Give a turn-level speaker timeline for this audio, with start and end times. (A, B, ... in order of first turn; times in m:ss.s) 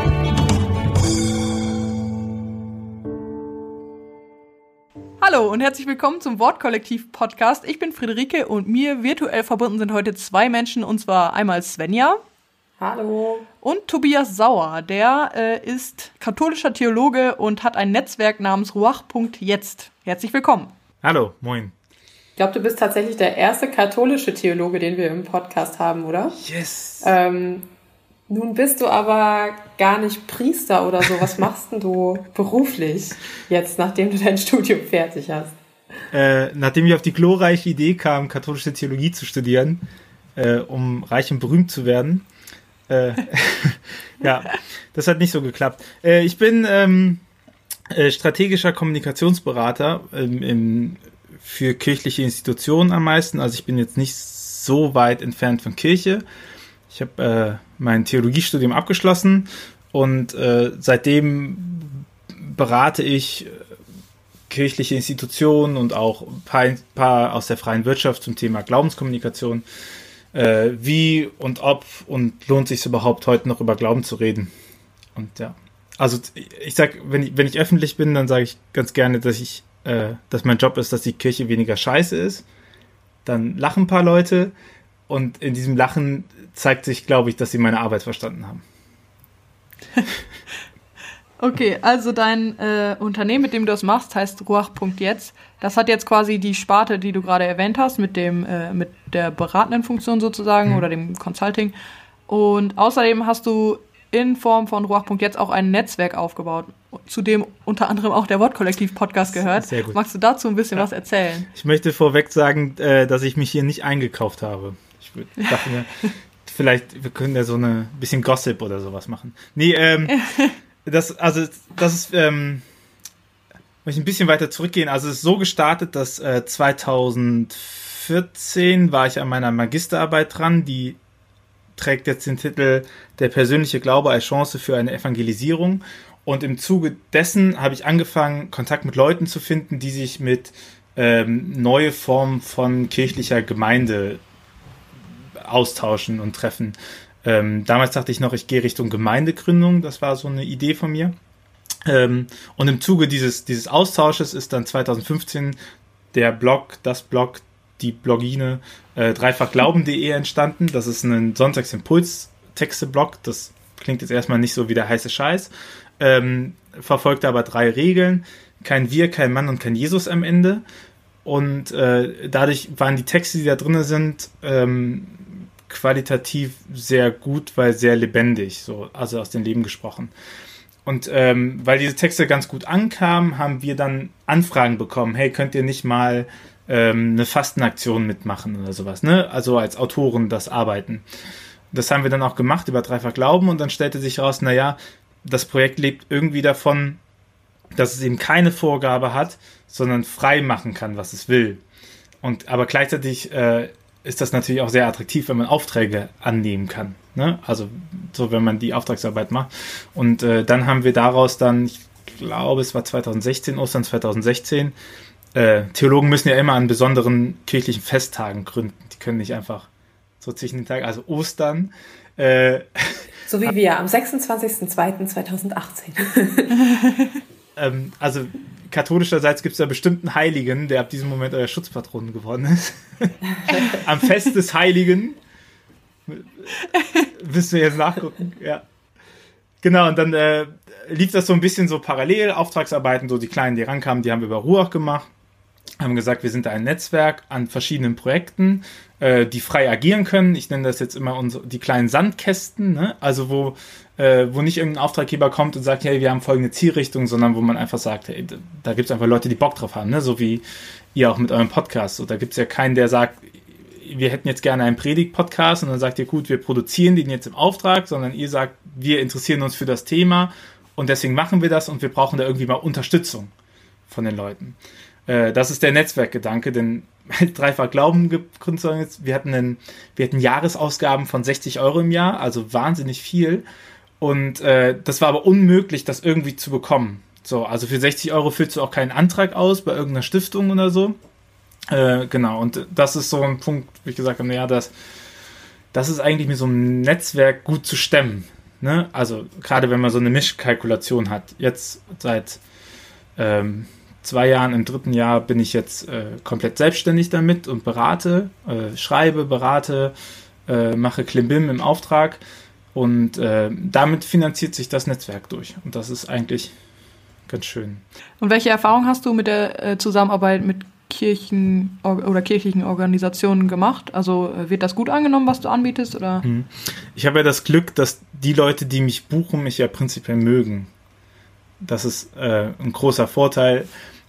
0:05.2-0:12.2 A
0:12.8-0:13.5 B
0:13.6-0:20.7 A
0:21.0-0:21.7 C
0:22.4-0:26.4 B
0:26.4-0:27.2 C
0:27.0-0:27.7 B
0:28.3-0:35.6 B
0:36.1-0:39.8 C
0:40.4-0:42.2 C
0:42.9-0:47.2 C
0:47.9-0:56.2 C
0:56.9-1:03.6 C
1:04.5-1:09.6 C
1:10.3-1:14.5 C
1:15.2-1:22.5 C
1:23.2-1:24.5 C
1:25.1-1:28.6 C
1:31.4-1:41.8 A
1:42.3-1:51.5 A
1:49.4-1:50.0 C
1:51.5-1:55.9 C
1:55.4-1:55.7 A
1:56.4-2:00.2 C
2:00.1-2:00.5 A
2:00.8-2:02.6 C
2:03.8-2:11.0 C
2:11.8-2:24.2 C
2:25.4-2:31.2 C
2:31.9-2:35.6 C
2:36.1-2:50.6 C
2:51.2-3:00.1 C
3:00.8-3:11.0 C
3:11.7-3:17.0 C
3:17.7-3:21.6 C
3:22.2-3:34.8 C
3:35.4-3:39.7 C
3:40.2-3:43.5 C
3:43.3-3:46.7 B
3:46.7-3:47.2 A
3:47.6-3:55.2 C
3:56.1-3:58.6 C
3:56.7-3:57.1 A
3:59.6-4:05.1 C
4:05.8-4:20.4 C
4:21.0-4:33.3 C
4:33.9-4:43.4 C
4:44.0-4:51.0 C
4:51.7-4:54.7 C
4:55.7-5:02.4 C
5:03.2-5:09.9 C
5:10.5-5:12.2 C
5:12.8-5:16.5 C
5:17.3-5:17.8 C
5:18.2-5:26.2 A
5:26.2-5:30.7 C
5:31.6-5:33.7 C